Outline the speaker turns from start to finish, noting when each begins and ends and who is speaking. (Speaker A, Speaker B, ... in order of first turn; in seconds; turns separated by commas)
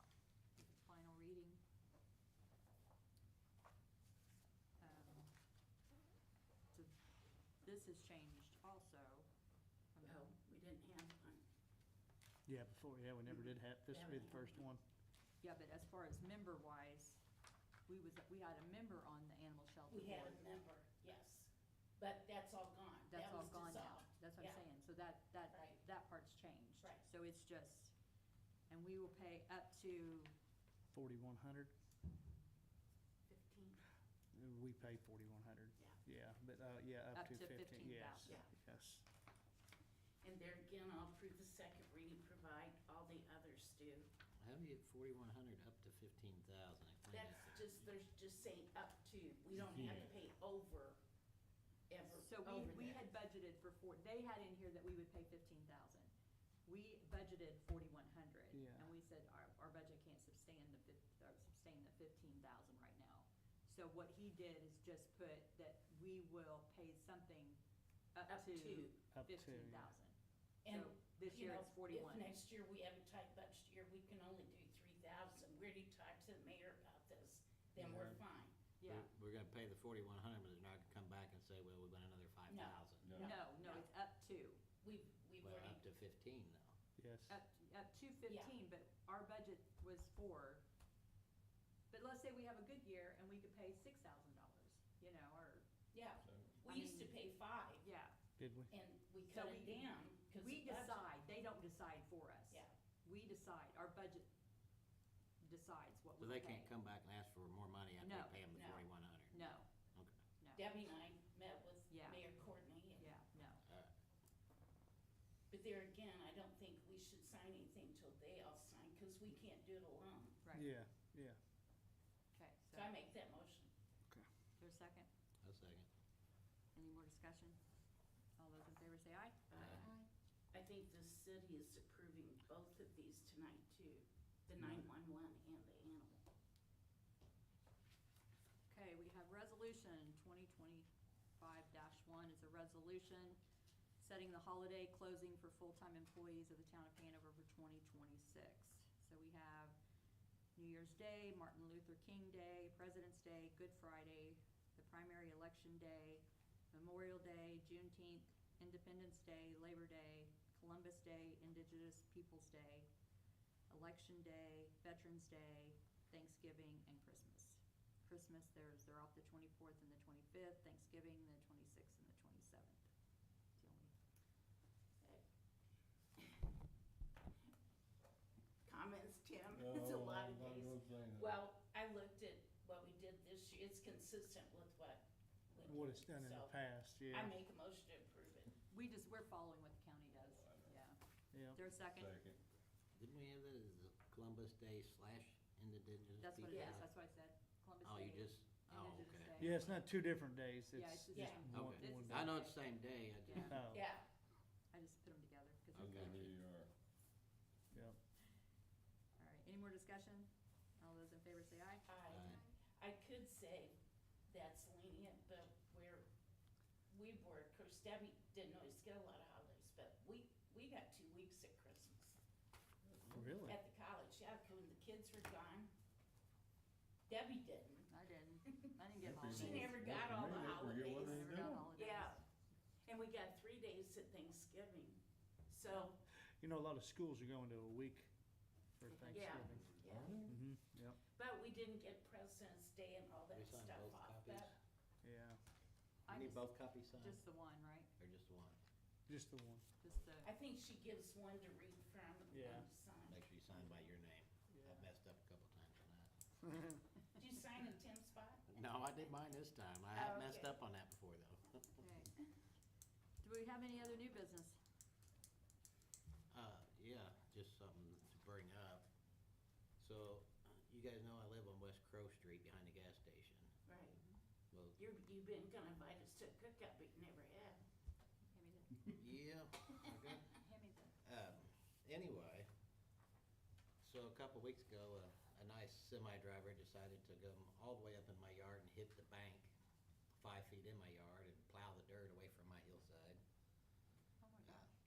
Speaker A: 0.6-1.6, Speaker A: 4.8-5.3, Speaker A: 7.6-9.3, Speaker A: 9.9-10.3, Speaker B: 10.0-11.4, Speaker C: 12.4-14.8, Speaker B: 13.2-14.7, Speaker A: 15.4-17.2, Speaker A: 17.9-20.4, Speaker B: 19.9-24.6, Speaker A: 23.1-27.9, Speaker B: 25.5-25.8, Speaker B: 26.8-27.1, Speaker A: 28.7-30.3, Speaker C: 30.9-31.7, Speaker B: 33.3-33.8, Speaker C: 34.3-39.0, Speaker A: 37.1-38.4, Speaker B: 38.2-38.5, Speaker B: 40.2-44.1, Speaker D: 44.4-47.9, Speaker B: 47.1-51.0, Speaker B: 51.9-53.0, Speaker A: 52.1-56.1, Speaker A: 56.6-67.6, Speaker C: 58.5-58.9, Speaker A: 68.1-70.1, Speaker B: 68.3-69.0, Speaker C: 69.1-69.9, Speaker B: 70.6-78.5, Speaker A: 70.7-72.3, Speaker C: 77.8-78.2, Speaker A: 78.8-79.1, Speaker D: 78.8-83.1, Speaker B: 82.5-83.8, Speaker E: 83.0-83.3, Speaker A: 83.2-84.6, Speaker B: 84.8-85.8, Speaker D: 85.4-86.7, Speaker C: 87.0-87.4, Speaker A: 87.3-90.6, Speaker B: 88.3-88.5, Speaker A: 91.9-95.7, Speaker B: 95.9-97.8, Speaker E: 96.2-96.5, Speaker A: 96.6-97.2, Speaker A: 97.8-98.1, Speaker C: 98.4-98.7, Speaker B: 98.7-101.1, Speaker A: 99.3-104.3, Speaker A: 105.4-106.7, Speaker D: 106.2-110.1, Speaker A: 108.0-108.4, Speaker B: 108.5-108.9, Speaker A: 109.3-109.7, Speaker B: 110.6-113.1, Speaker A: 111.9-112.2, Speaker A: 113.0-113.6, Speaker B: 115.5-120.4, Speaker A: 120.4-120.7, Speaker C: 120.5-121.4, Speaker A: 122.3-123.0, Speaker B: 122.7-123.7, Speaker A: 124.6-125.1, Speaker D: 125.4-125.9, Speaker A: 126.7-127.6, Speaker A: 128.4-129.9, Speaker B: 129.5-129.9, Speaker D: 129.6-129.9, Speaker B: 130.5-136.2, Speaker A: 138.7-143.4, Speaker A: 144.0-149.8, Speaker A: 150.5-162.9, Speaker A: 163.7-172.8, Speaker A: 173.6-173.9, Speaker B: 178.7-186.6, Speaker E: 179.5-181.4, Speaker C: 185.6-187.3, Speaker B: 187.1-188.5, Speaker A: 188.7-192.1, Speaker E: 190.3-190.8, Speaker C: 191.3-191.6, Speaker E: 191.8-192.4, Speaker D: 192.9-196.9, Speaker A: 196.2-199.6, Speaker B: 196.5-196.8, Speaker D: 197.8-199.8, Speaker C: 199.4-202.3, Speaker A: 200.7-203.6, Speaker B: 201.1-201.5, Speaker D: 201.5-203.7, Speaker C: 203.5-203.8, Speaker B: 203.7-204.1, Speaker A: 204.7-206.4, Speaker E: 205.7-206.7, Speaker D: 205.9-206.1, Speaker C: 207.7-208.0, Speaker A: 209.2-211.8, Speaker B: 211.9-213.7, Speaker D: 212.1-212.4, Speaker B: 214.3-216.1, Speaker B: 216.9-222.2, Speaker C: 223.1-223.6, Speaker B: 223.4-225.7, Speaker B: 227.1-227.9, Speaker A: 227.9-229.8, Speaker E: 229.0-231.7, Speaker B: 229.3-232.2, Speaker A: 230.9-232.2, Speaker B: 232.9-236.0, Speaker C: 236.4-238.1, Speaker C: 238.8-239.7, Speaker A: 238.8-239.6, Speaker B: 239.1-240.2, Speaker E: 239.9-240.3, Speaker C: 240.2-241.0, Speaker B: 241.2-244.5, Speaker D: 243.3-244.5, Speaker C: 245.0-245.4, Speaker A: 246.1-247.9, Speaker D: 246.1-247.2, Speaker D: 248.0-248.6, Speaker C: 249.1-249.6, Speaker A: 249.8-250.3, Speaker B: 250.2-253.2, Speaker C: 252.3-252.7, Speaker D: 253.1-256.1, Speaker C: 254.5-254.8, Speaker B: 257.2-258.4, Speaker D: 258.5-261.7, Speaker B: 259.9-260.5, Speaker A: 261.8-262.1, Speaker A: 263.2-264.6, Speaker D: 266.3-268.9, Speaker D: 269.8-273.5, Speaker B: 273.7-274.0, Speaker D: 274.5-274.8, Speaker B: 274.8-277.6, Speaker A: 278.3-278.9, Speaker D: 279.0-280.4, Speaker A: 280.3-280.9, Speaker D: 281.0-282.5, Speaker D: 283.8-289.5, Speaker D: 290.1-293.2, Speaker A: 294.2-294.7